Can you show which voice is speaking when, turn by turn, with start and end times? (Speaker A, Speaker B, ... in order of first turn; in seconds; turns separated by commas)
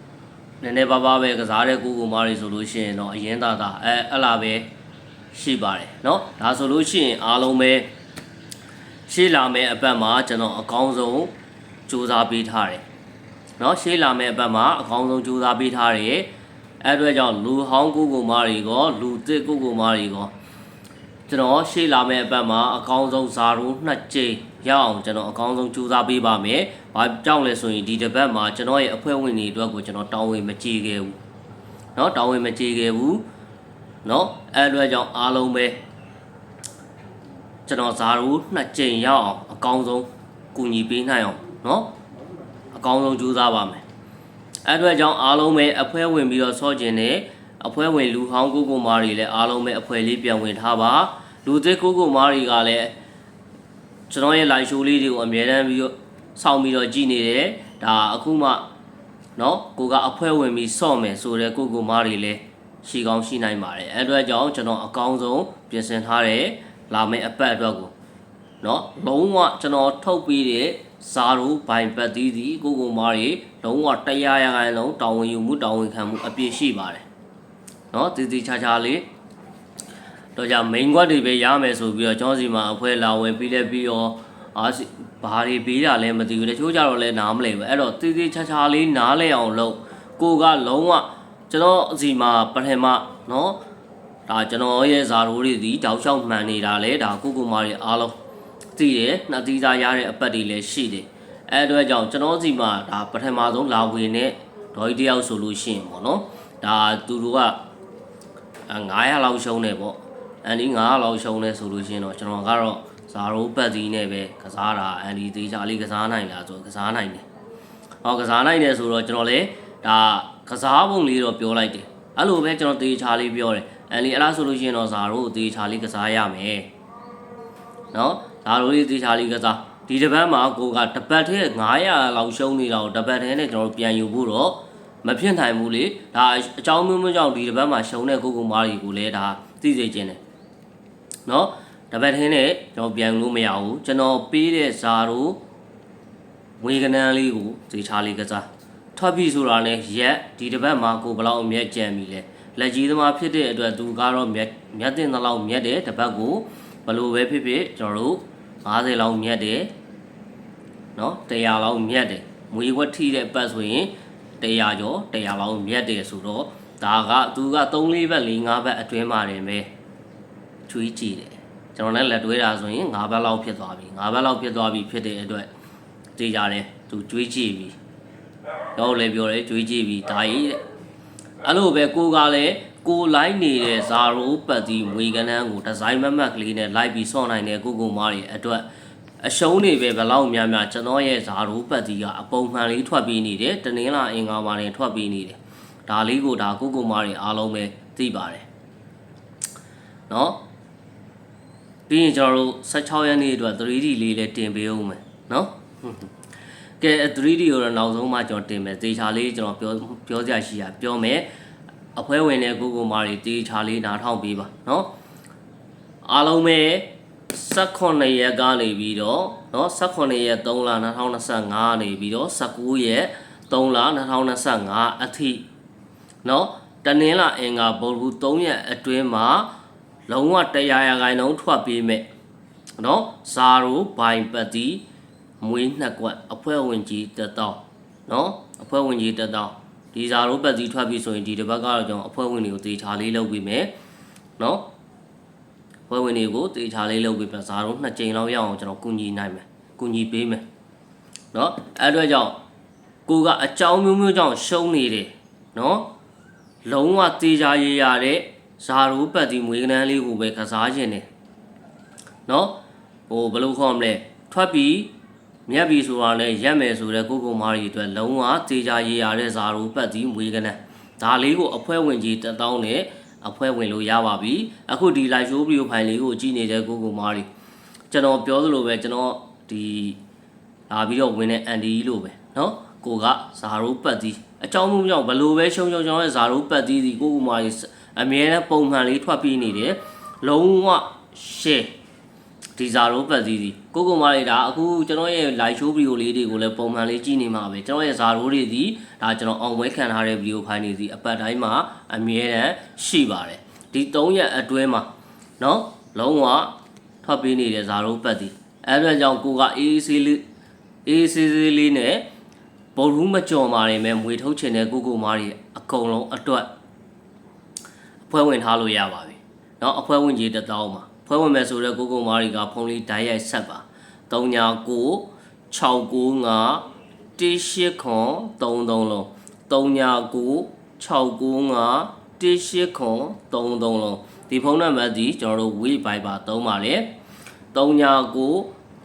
Speaker A: 0.6-4.7, Speaker A: 5.3-7.9, Speaker A: 9.1-11.3, Speaker A: 11.9-12.8, Speaker A: 13.6-16.3, Speaker A: 16.8-20.3, Speaker A: 21.3-31.1, Speaker A: 31.9-33.2, Speaker A: 34.0-35.8, Speaker A: 37.6-41.9, Speaker A: 42.7-43.8, Speaker A: 44.6-52.9, Speaker A: 54.1-58.6, Speaker A: 59.4-67.9, Speaker A: 68.6-77.0, Speaker A: 77.9-79.0, Speaker A: 80.3-93.6, Speaker A: 94.3-98.2, Speaker A: 98.8-107.6, Speaker A: 108.7-117.2, Speaker A: 118.0-126.7, Speaker A: 127.9-140.2, Speaker A: 141.2-145.4, Speaker A: 146.6-159.7, Speaker A: 160.9-169.7, Speaker A: 170.7-175.5, Speaker A: 176.2-177.8, Speaker A: 178.8-180.6, Speaker A: 181.4-188.6, Speaker A: 189.2-198.4, Speaker A: 200.1-200.4, Speaker A: 201.9-206.1, Speaker A: 206.8-211.3, Speaker A: 211.9-214.9, Speaker A: 216.0-225.4, Speaker A: 226.2-229.5, Speaker A: 230.1-232.1, Speaker A: 232.8-234.8, Speaker A: 235.4-243.7, Speaker A: 244.4-244.7, Speaker A: 245.9-250.4, Speaker A: 251.3-252.4, Speaker A: 253.1-255.9, Speaker A: 256.6-261.1, Speaker A: 262.3-262.6, Speaker A: 263.1-264.9, Speaker A: 265.5-277.3, Speaker A: 277.9-280.0, Speaker A: 280.7-291.7, Speaker A: 292.6-304.9, Speaker A: 305.4-310.2, Speaker A: 310.8-312.1, Speaker A: 312.7-316.5, Speaker A: 318.0-326.6, Speaker A: 327.2-336.9, Speaker A: 337.5-338.5